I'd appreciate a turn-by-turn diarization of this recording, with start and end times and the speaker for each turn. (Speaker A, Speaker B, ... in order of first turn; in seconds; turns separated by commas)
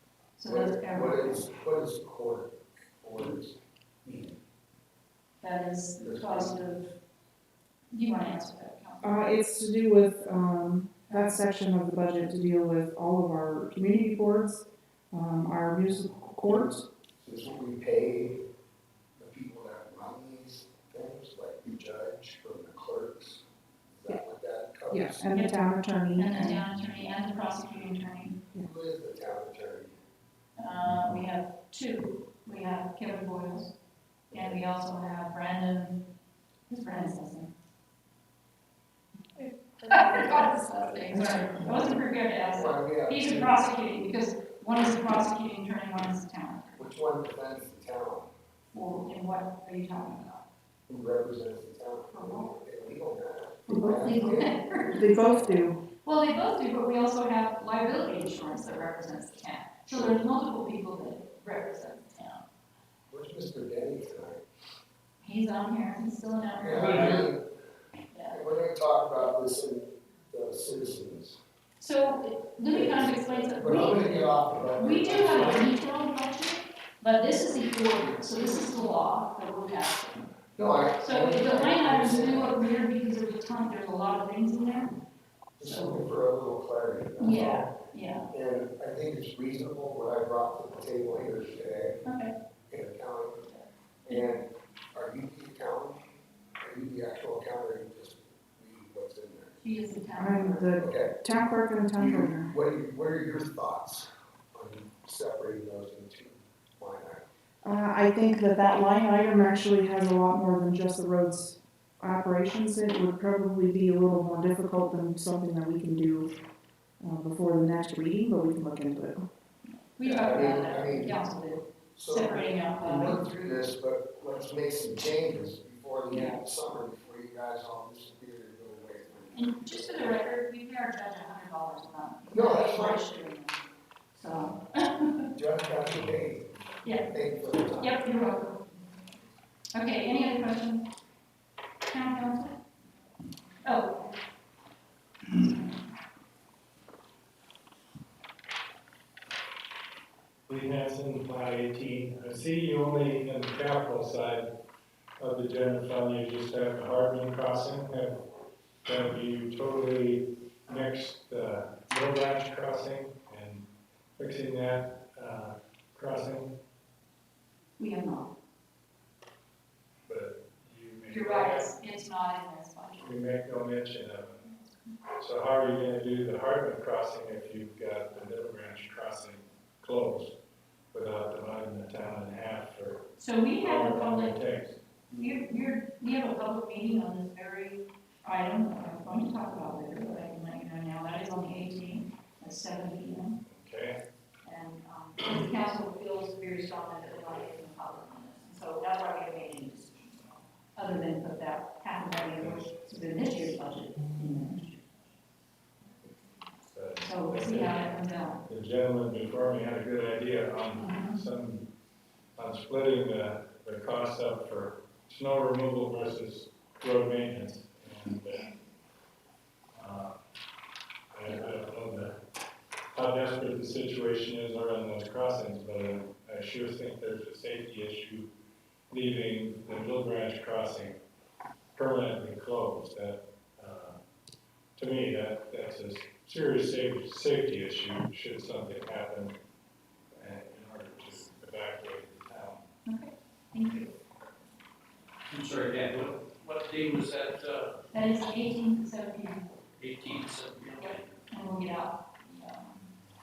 Speaker A: 0.4-1.4, Speaker B: 0.5-4.4, Speaker A: 5.4-6.9, Speaker B: 6.0-6.5, Speaker A: 7.9-9.2, Speaker C: 9.0-16.9, Speaker B: 17.2-18.4, Speaker B: 19.2-25.3, Speaker C: 24.9-26.6, Speaker A: 25.3-25.6, Speaker A: 26.2-28.4, Speaker B: 28.6-30.0, Speaker A: 30.6-33.7, Speaker B: 34.3-34.6, Speaker A: 34.3-36.0, Speaker A: 36.7-37.5, Speaker C: 39.6-40.1, Speaker A: 39.9-46.8, Speaker C: 41.1-41.8, Speaker B: 42.5-43.6, Speaker B: 46.8-48.3, Speaker A: 48.7-50.5, Speaker B: 50.9-54.6, Speaker A: 52.1-52.5, Speaker A: 53.7-62.4, Speaker C: 54.9-55.8, Speaker B: 59.9-60.1, Speaker B: 63.1-64.4, Speaker A: 65.2-67.1, Speaker B: 66.6-67.4, Speaker D: 66.8-67.2, Speaker A: 68.1-68.4, Speaker B: 68.3-71.4, Speaker A: 71.8-80.2, Speaker B: 72.7-75.7, Speaker B: 80.6-82.6, Speaker A: 81.0-85.0, Speaker B: 85.6-87.7, Speaker A: 85.6-86.0, Speaker A: 87.2-88.3, Speaker B: 88.3-92.0, Speaker A: 92.0-92.3, Speaker B: 92.7-93.4, Speaker B: 94.1-96.1, Speaker B: 96.6-99.6, Speaker A: 99.6-100.7, Speaker C: 100.2-102.5, Speaker B: 100.8-101.2, Speaker B: 102.0-107.2, Speaker C: 107.6-116.3, Speaker C: 117.0-119.2, Speaker A: 119.9-123.2, Speaker B: 120.0-121.2, Speaker B: 122.0-129.7, Speaker A: 126.1-126.4, Speaker A: 129.3-133.6, Speaker B: 132.3-133.0, Speaker A: 134.1-135.3, Speaker B: 135.3-136.5, Speaker A: 136.8-137.1, Speaker B: 137.1-138.0, Speaker A: 137.8-138.8, Speaker A: 139.7-140.9, Speaker A: 141.9-142.6, Speaker A: 143.6-144.1, Speaker E: 150.5-154.5, Speaker E: 155.2-158.2, Speaker E: 158.8-163.7, Speaker E: 164.2-166.5, Speaker A: 167.8-168.3, Speaker E: 170.1-171.7, Speaker A: 171.1-173.1, Speaker E: 173.0-174.4, Speaker E: 175.2-180.3, Speaker E: 180.9-183.0, Speaker A: 183.2-184.3, Speaker E: 183.6-184.8, Speaker A: 185.1-193.4, Speaker E: 193.5-194.0, Speaker A: 194.4-204.9, Speaker E: 202.4-202.7, Speaker E: 206.7-207.8, Speaker A: 207.0-208.4, Speaker E: 208.5-211.6, Speaker A: 210.8-211.2, Speaker E: 212.4-218.5, Speaker E: 219.8-220.2, Speaker E: 221.1-222.2, Speaker E: 222.9-228.3, Speaker E: 228.9-231.0, Speaker E: 231.8-234.0, Speaker E: 234.8-239.3, Speaker E: 240.1-242.6, Speaker A: 242.9-243.9, Speaker D: 245.3-247.7, Speaker A: 247.9-249.4, Speaker D: 249.8-251.0, Speaker A: 250.8-252.8